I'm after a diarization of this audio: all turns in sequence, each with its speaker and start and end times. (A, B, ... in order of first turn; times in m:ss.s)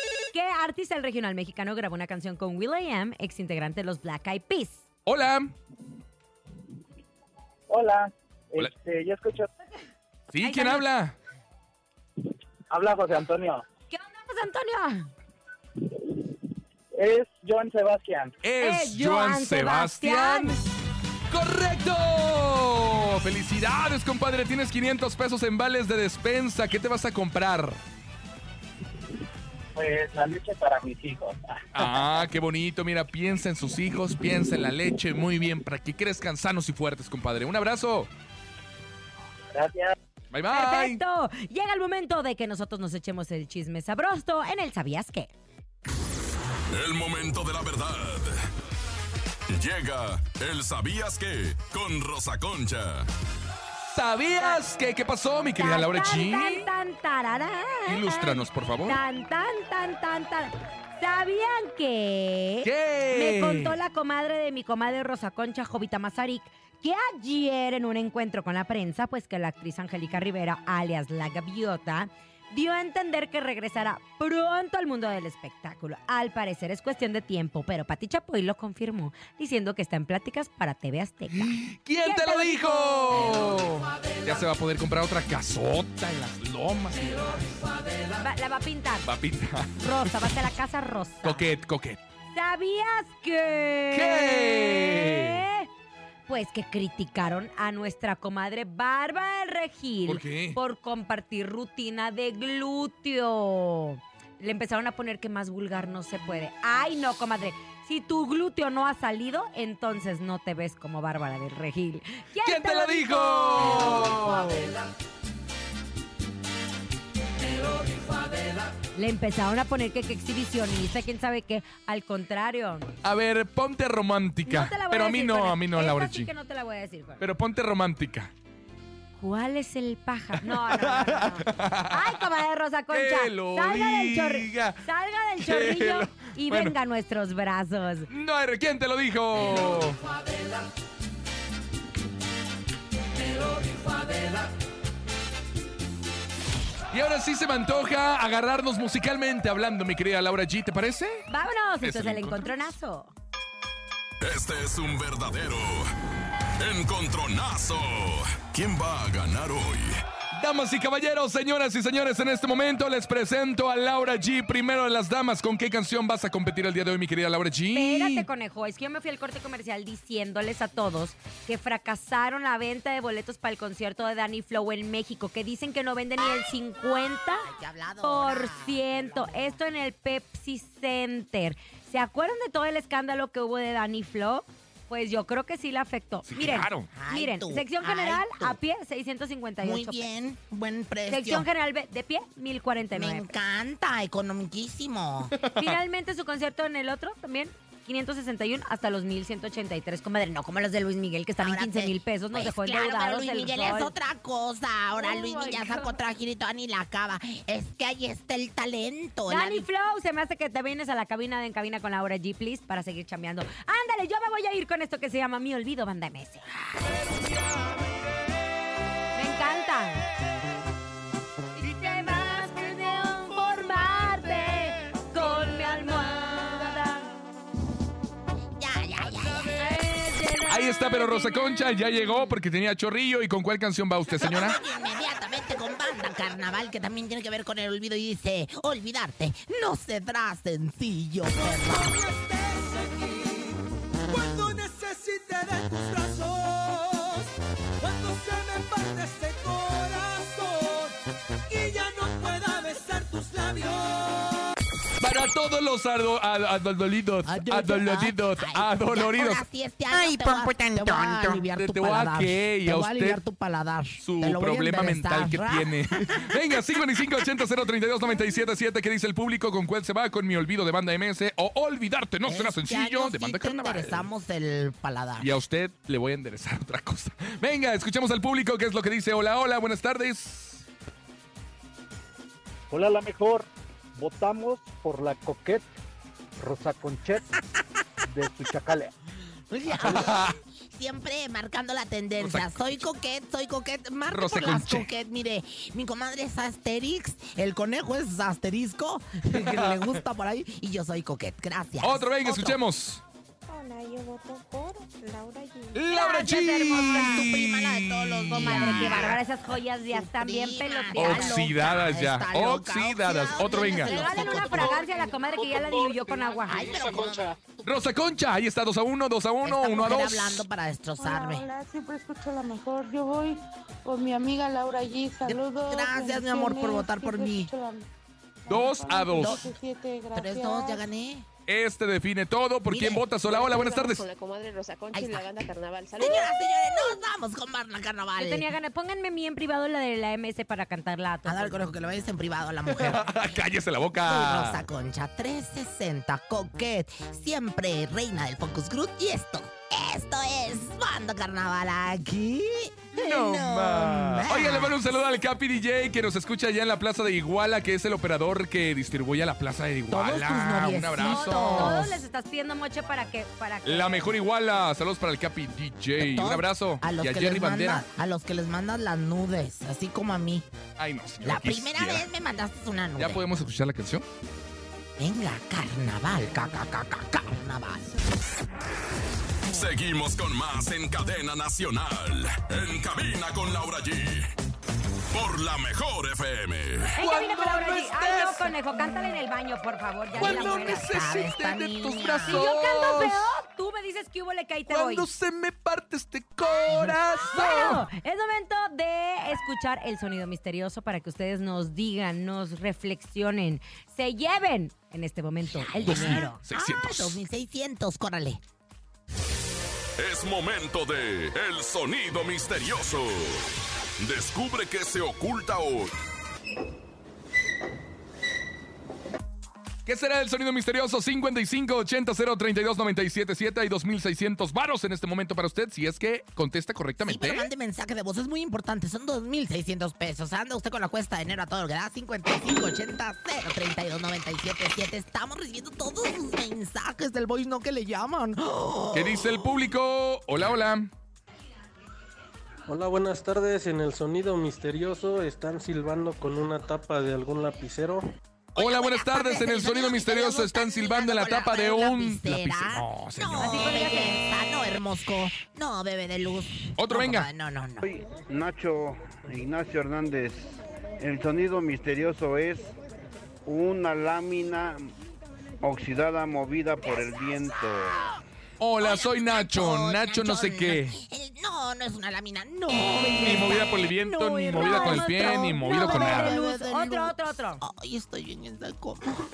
0:00.3-0:04.8 A
0:05.1-0:05.5 B
0:07.7-0:09.5 C
0:10.3-0:11.2 B
0:10.4-0:10.9 A
0:12.7-0:13.6 C
0:13.9-0:15.1 A
0:16.9-0:18.4 C
0:18.4-0:20.6 B
0:18.6-0:20.6 A
0:21.3-0:27.8 B
0:29.8-0:31.9 C
0:31.7-0:38.1 B
0:39.5-0:40.0 C
0:40.3-0:41.0 B
0:40.5-0:45.3 A
0:46.7-0:48.4 D
0:49.5-0:53.1 D
0:53.8-0:56.7 B
0:55.6-1:23.4 A
0:57.9-0:59.0 B
1:02.6-1:03.8 B
1:21.3-1:27.6 B
1:28.2-1:29.1 A
1:29.0-1:30.3 B
1:29.8-1:31.5 A
1:31.2-1:32.0 B
1:32.3-1:35.7 A
1:33.9-1:35.4 B
1:36.3-1:54.4 A
1:40.1-1:40.6 B
1:52.4-1:54.7 B
1:59.0-2:02.9 A
2:03.0-2:06.3 B
2:04.5-2:07.2 A
2:07.2-2:08.3 B
2:09.2-2:18.1 A
2:10.4-2:12.2 B
2:12.9-2:14.8 B
2:15.4-2:16.8 B
2:18.1-2:20.0 B
2:26.9-2:31.3 B
2:31.3-2:33.1 A
2:31.8-2:32.7 B
2:34.2-2:35.9 D
2:36.6-2:40.0 D
2:40.3-2:48.3 B
2:47.7-2:57.5 A
2:57.4-2:59.6 E
2:58.0-3:10.1 A
3:06.3-3:06.9 B
3:06.9-3:08.6 E
3:09.6-3:11.5 E
3:11.1-3:13.3 A
3:13.0-3:15.4 E
3:15.5-3:23.9 A
3:21.4-3:29.7 E
3:25.0-3:25.9 A
3:29.3-3:36.5 A
3:39.1-3:40.1 A
3:41.6-3:47.1 A
3:48.6-3:49.7 E
3:49.6-3:52.3 A
3:50.5-3:54.6 B
3:54.1-4:02.0 E
4:01.3-4:07.3 F
4:07.8-4:11.0 F
4:11.5-4:14.5 F
4:15.0-4:23.2 B
4:17.3-4:26.4 E
4:24.0-4:34.1 B
4:32.3-4:35.3 E
4:35.2-4:40.6 B
4:42.7-4:45.8 G
4:46.4-4:47.3 G
4:48.1-4:48.9 G
4:49.5-5:02.6 E
4:49.7-4:50.4 B
4:52.2-4:52.8 B
4:54.1-4:54.9 B
4:59.3-4:59.9 B
5:01.8-5:03.0 B
5:03.5-5:06.0 H
5:05.7-5:09.2 B
5:05.9-5:07.3 A
5:06.7-5:09.3 E
5:08.4-5:11.4 A
5:09.9-5:14.8 E
5:11.0-5:14.0 B
5:13.8-5:16.8 A
5:14.2-5:15.2 H
5:15.4-5:17.3 G
5:16.4-5:17.6 E
5:17.6-5:20.4 B
5:19.4-5:21.5 E
5:21.0-5:27.9 H
5:25.2-5:27.5 E
5:28.5-5:30.9 H
5:28.5-5:29.4 B
5:29.2-5:29.6 E
5:30.1-5:31.2 E
5:31.5-5:34.0 B
5:32.7-5:33.1 E
5:33.2-5:36.4 I
5:34.9-5:35.4 E
5:36.0-5:38.5 E
5:38.2-5:41.7 A
5:41.3-5:43.4 E
5:42.7-5:44.6 B
5:44.0-5:54.9 E
5:52.9-6:01.8 B
5:59.9-6:02.0 E
6:01.0-6:04.1 A
6:03.6-6:07.9 B
6:06.0-6:10.5 E
6:10.8-6:12.1 B
6:11.2-6:13.2 E
6:13.0-6:14.0 B
6:15.0-6:18.0 E
6:19.5-6:24.3 D
6:25.1-6:26.9 D
6:27.0-6:30.9 A
6:27.0-6:29.0 B
6:30.2-6:32.5 E
6:30.2-6:33.3 B
6:32.3-6:35.1 A
6:34.7-6:37.9 B
6:37.3-6:46.3 A
6:45.5-6:48.4 E
6:45.8-6:47.2 B
6:50.0-6:53.4 D
6:54.0-6:55.9 D
6:59.9-7:07.5 B
7:07.0-7:19.6 E
7:18.9-7:20.9 B
7:22.7-7:28.1 J
7:28.6-7:37.8 E
7:28.6-7:33.7 B
7:33.4-7:34.2 A
7:36.8-7:37.3 B
7:37.8-7:42.7 K
7:43.4-7:44.9 K
7:45.6-7:48.0 K
7:48.6-7:51.0 B
7:48.8-7:59.2 E
7:53.0-7:56.4 B
7:54.2-7:57.6 A